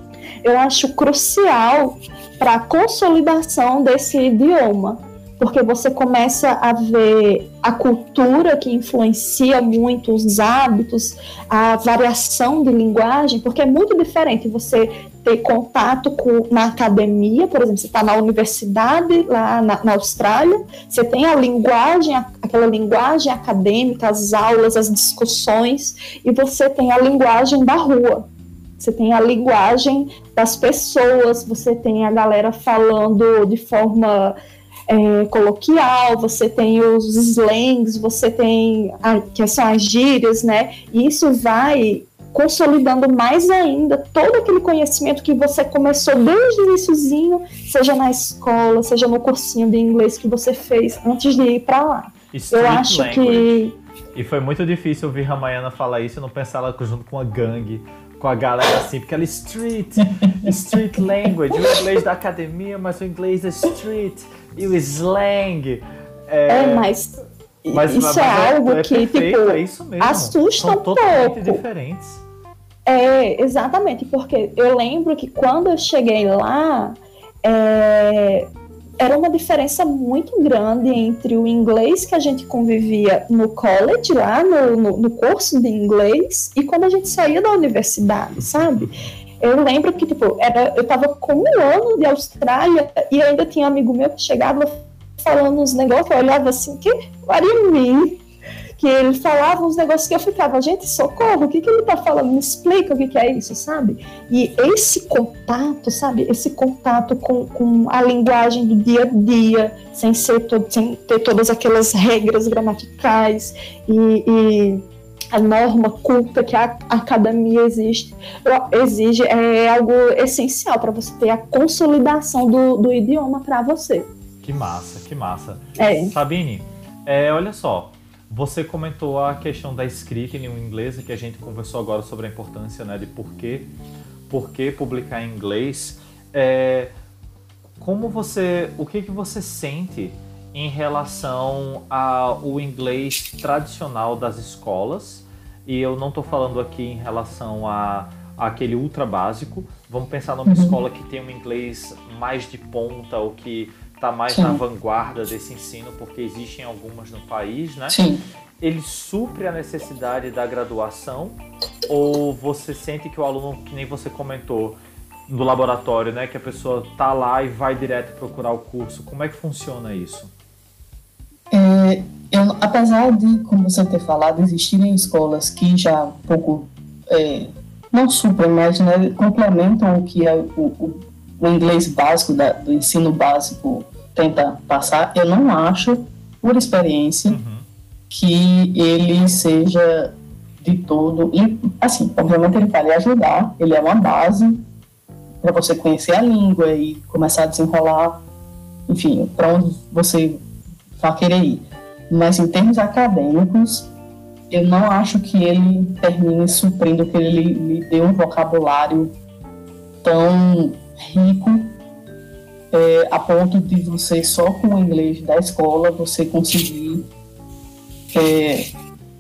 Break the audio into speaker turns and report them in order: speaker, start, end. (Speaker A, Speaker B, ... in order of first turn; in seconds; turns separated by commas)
Speaker A: 0.4-28.3, Speaker A: 28.8-34.4, Speaker A: 34.9-53.8, Speaker B: 52.3-53.5, Speaker B: 54.1-67.0, Speaker C: 60.2-60.8, Speaker A: 66.5-71.6, Speaker B: 67.7-72.2, Speaker A: 72.9-98.2, Speaker B: 88.4-89.0, Speaker A: 98.8-124.1, Speaker B: 124.4-133.7, Speaker A: 125.8-126.2, Speaker B: 134.3-136.9, Speaker B: 137.8-158.0, Speaker C: 150.5-150.8, Speaker C: 154.3-154.6, Speaker C: 157.9-158.2, Speaker B: 158.6-170.3, Speaker C: 171.5-187.4, Speaker B: 187.3-187.7, Speaker C: 188.1-194.7, Speaker C: 195.4-198.2, Speaker C: 198.9-200.4, Speaker C: 201.0-203.9, Speaker C: 204.5-209.1, Speaker C: 210.0-211.8, Speaker C: 212.7-217.1, Speaker C: 218.1-218.7